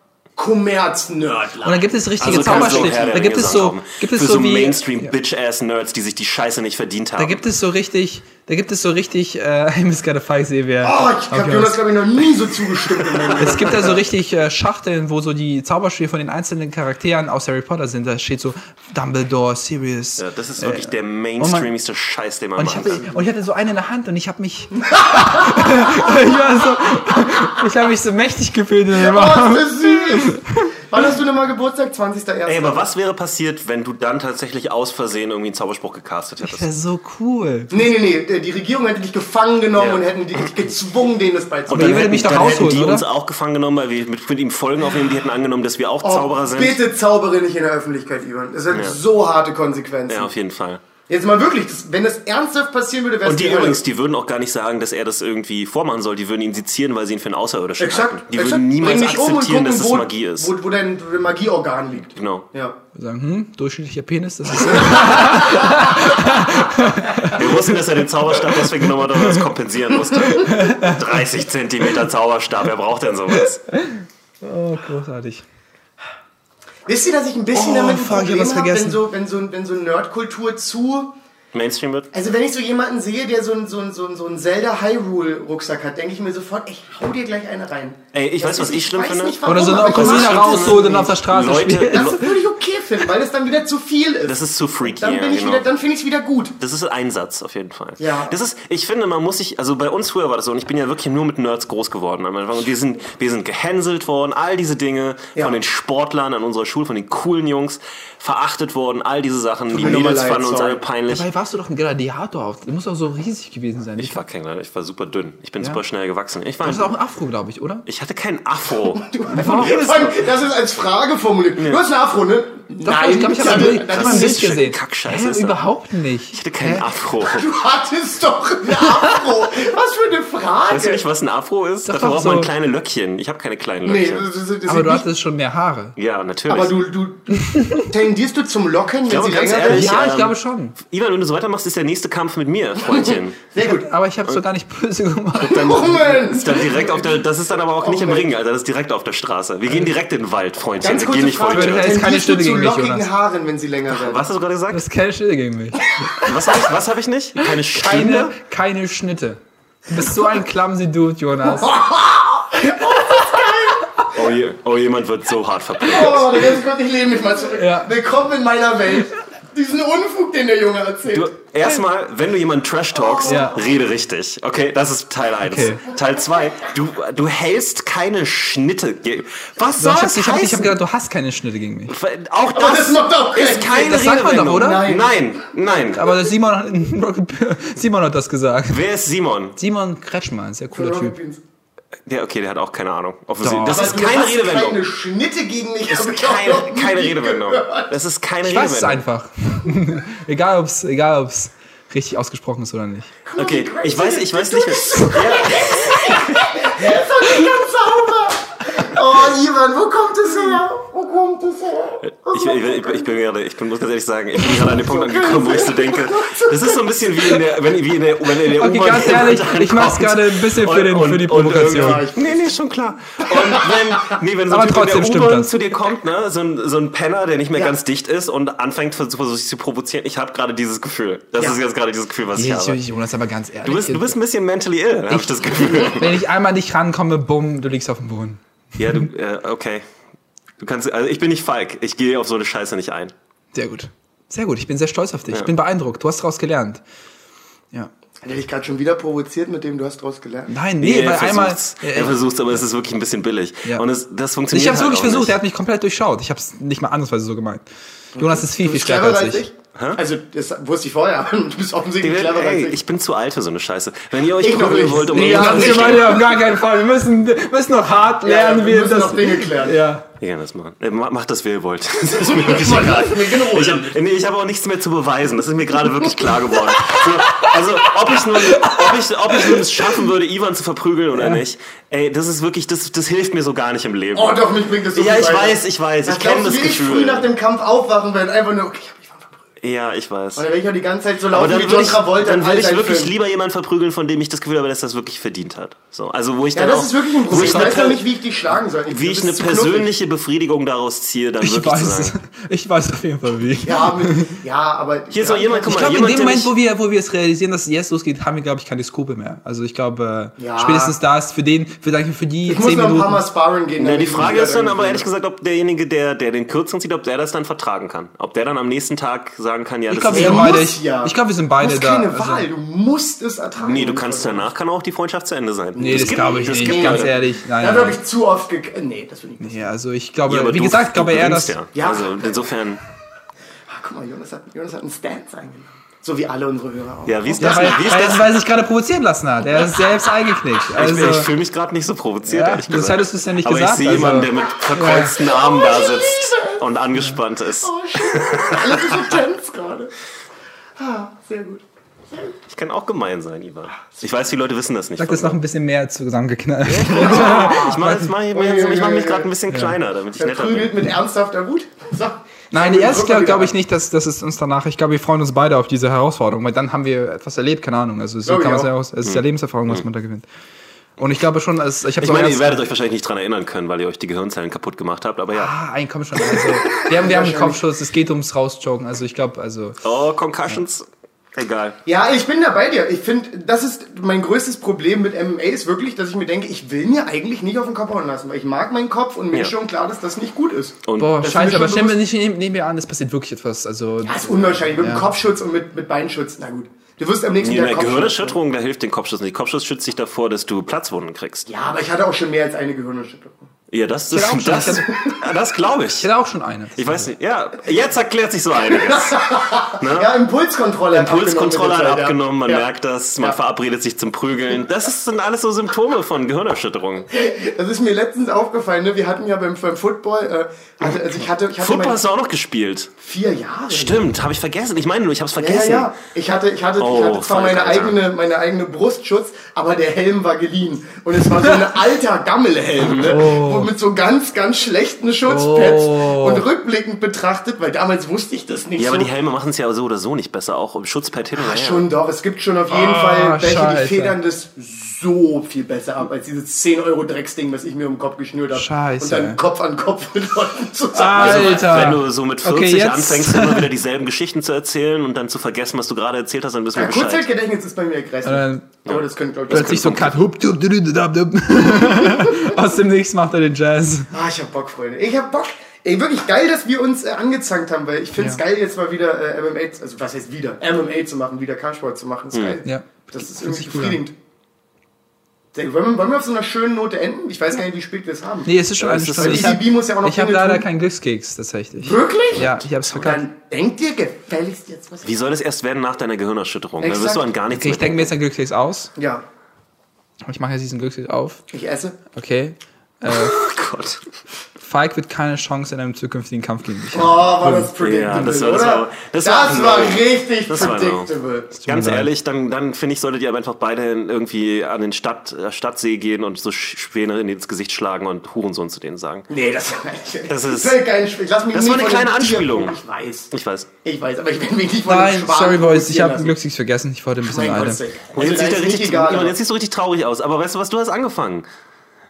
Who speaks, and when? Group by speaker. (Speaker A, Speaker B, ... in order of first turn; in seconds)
Speaker A: 0.3-3.1, 10.8-14.0, 28.9-32.9, 37.7-42.7, 46.0-50.3, 51.1-53.8, 57.8-62.8, 64.7-65.9, 76.8-81.1, 82.1-91.1, 91.9-96.5, 98.0-98.4, 105.3-105.6, 109.7-110.8, 119.0-124.5, 127.2-131.0, 133.8-135.1, 136.5-140.1, 142.9-143.9, 145.4-147.2, 147.8-148.3, 150.8-154.2, 161.4-164.2, 165.8-171.3, 173.0-173.5, 182.5-185.2, 190.7-191.4, 193.6-198.0, 203.2-213.1, 214.4-217.4, 221.7-222.4, 223.3-223.8, 248.2-250.5, 258.1-262.8, 264.4-266.2, 268.2-269.8, 272.2-273.9, 284.1-289.4, 290.3-293.1, 296.5-299.9, 303.6-306.1, 310.4-310.9, 312.4-315.1, 320.1-324.5, 325.8-329.7, 331.7-332.4, 333.7-337.9, 345.2-346.6, 347.6-349.9, 350.8-352.3, 356.9-357.8, 358.3-359.3, 360.2-363.5, 368.2-368.7, 376.8-377.6, 381.9-392.0, 394.0-398.4, 401.5-403.4, 404.6-405.2, 408.7-412.6, 417.1-422.0, 423.0-424.1, 425.4-439.1, 441.4-451.8, 456.7-460.1, 461.6-462.6, 464.1-474.1, 475.5-478.5, 479.2-480.6, 481.8-485.1, 486.8-487.3, 488.9-489.2, 491.5-492.0, 496.9-501.5, 509.3-513.3, 513.8-516.4, 517.2-519.4
Speaker B: 1.6-5.1, 7.2-11.8, 13.4-21.7, 22.6-30.7, 36.4-37.8, 41.7-43.0, 62.9-67.7, 68.5-69.5, 70.2-71.1, 73.4-75.4, 77.5-79.0, 89.5-92.3, 111.1-114.2, 116.6-117.8, 119.3-120.2, 122.8-126.9, 131.8-132.5, 134.7-135.9, 137.3-137.9, 139.7-140.8, 143.6-146.3, 151.5-153.1, 154.7-156.3, 157.4-161.8, 162.9-163.2, 167.5-167.9, 173.2-173.6, 175.4-175.9, 179.8-181.9, 183.7-184.9, 185.7-188.9, 189.6-191.2, 193.4-193.9, 198.4-203.1, 218.5-222.1, 224.5-225.5, 232.3-234.2, 235.0-238.4, 243.5-246.8, 250.5-252.2, 254.5-259.4, 265.1-270.0, 278.1-279.8, 297.3-297.8, 301.4-304.4, 305.7-313.2, 319.9-322.5, 325.8-328.0, 329.4-331.6, 337.4-341.3, 342.2-345.1, 355.0-358.1, 359.5-359.8, 362.5-370.2, 371.0-372.6, 375.3-379.8, 391.0-395.1, 404.1-404.9, 405.9-407.1, 432.9-433.7, 435.2-436.4, 442.7-444.2, 448.5-449.4, 450.9-453.7, 458.2-458.6, 459.5-464.1, 472.6-474.0, 478.4-483.2, 487.5-488.9, 490.2-491.4, 492.1-493.4, 494.6-498.3, 501.6-502.1, 514.9-517.8
Speaker C: 2.2-7.4, 13.0-13.8, 20.2-23.1, 32.4-36.7, 39.8-40.0, 41.7-46.8, 48.7-49.0, 50.1-50.8, 53.2-60.5, 62.1-62.5, 67.2-73.6, 81.5-82.1, 88.1-92.3, 94.2-95.7, 96.6-111.3, 114.0-116.9, 117.8-119.8, 123.4-125.6, 126.3-127.5, 130.7-134.3, 136.0-136.8, 139.1-143.4, 145.5-151.9, 153.9-154.8, 156.2-158.3, 164.0-166.5, 171.1-180.8, 181.9-186.1, 188.7-189.6, 192.1-194.8, 195.9-199.0, 203.4-206.5, 212.0-232.8, 233.6-236.1, 238.8-239.8, 240.6-243.1, 250.8-255.3, 259.7-260.0, 262.0-266.3, 270.2-284.4, 284.9-287.2, 289.6-290.4, 291.3-298.0, 298.9-302.1, 305.1-306.5, 313.8-320.6, 323.6-327.1, 330.3-332.8, 337.1-338.3, 340.8-349.1, 352.5-355.4, 356.6-360.8, 369.0-369.8, 372.0-375.5, 379.8-381.8, 390.9-391.2, 397.4-401.5, 403.7-406.1, 406.8-409.2, 409.8-410.1, 410.9-417.1, 421.6-422.9, 423.7-425.9, 426.8-428.0, 438.8-441.9, 451.1-457.2, 458.9-460.0, 472.3-472.6, 478.8-479.6, 485.0-488.1, 493.1-494.0, 497.8-501.1, 501.6-509.3, 510.3-510.8, 511.5-512.8, 513.3-513.7, 518.1-521.4